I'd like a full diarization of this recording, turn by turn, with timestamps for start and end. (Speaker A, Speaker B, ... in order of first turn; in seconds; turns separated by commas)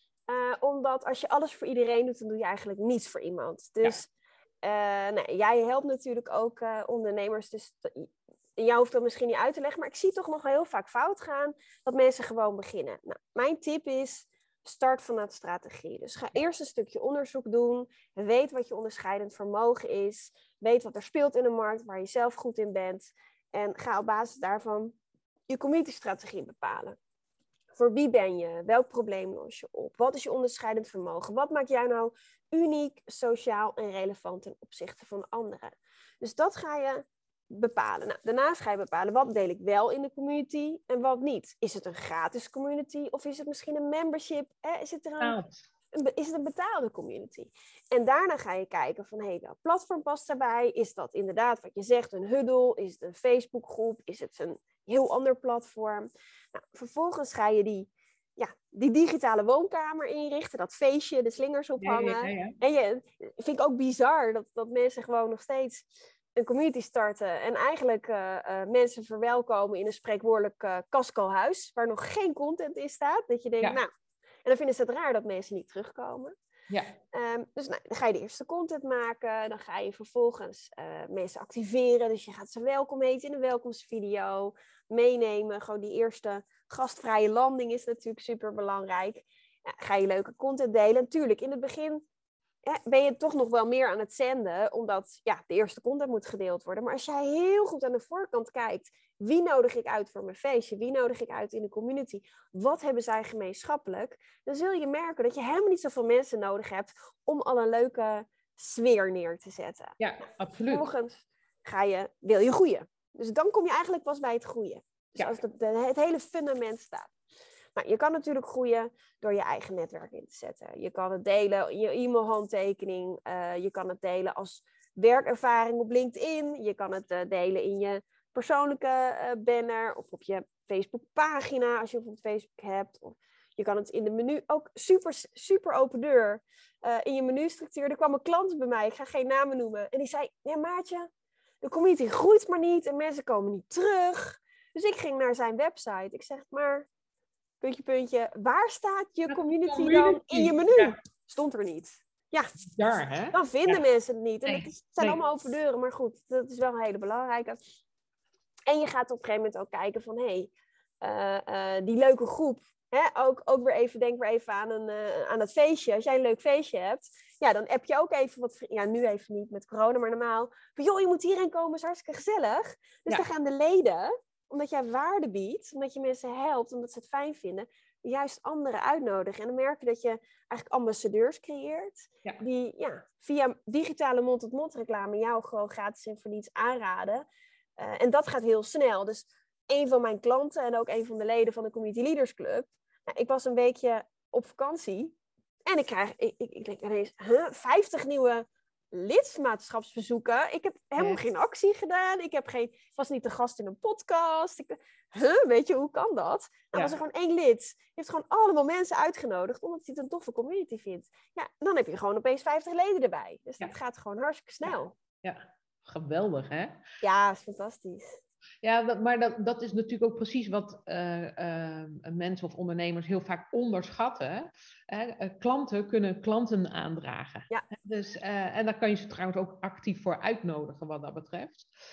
Speaker A: 0.3-4.1, Speaker A: 4.6-24.9, Speaker A: 25.5-27.0, Speaker A: 27.7-45.4, Speaker B: 45.2-45.6, Speaker A: 45.9-73.9, Speaker B: 61.8-62.5, Speaker A: 74.4-76.3, Speaker B: 76.7-76.9, Speaker A: 77.1-92.0, Speaker A: 92.7-110.0, Speaker B: 110.0-110.9, Speaker A: 110.7-117.1, Speaker A: 117.8-141.1, Speaker A: 141.6-146.9, Speaker A: 147.6-152.5, Speaker B: 149.3-150.9, Speaker B: 152.7-153.8, Speaker A: 153.3-157.6, Speaker B: 154.4-155.2, Speaker A: 158.7-160.5, Speaker A: 161.0-187.2, Speaker A: 187.8-195.1, Speaker A: 195.7-214.9, Speaker B: 214.6-216.8, Speaker A: 217.0-218.2, Speaker B: 218.6-231.7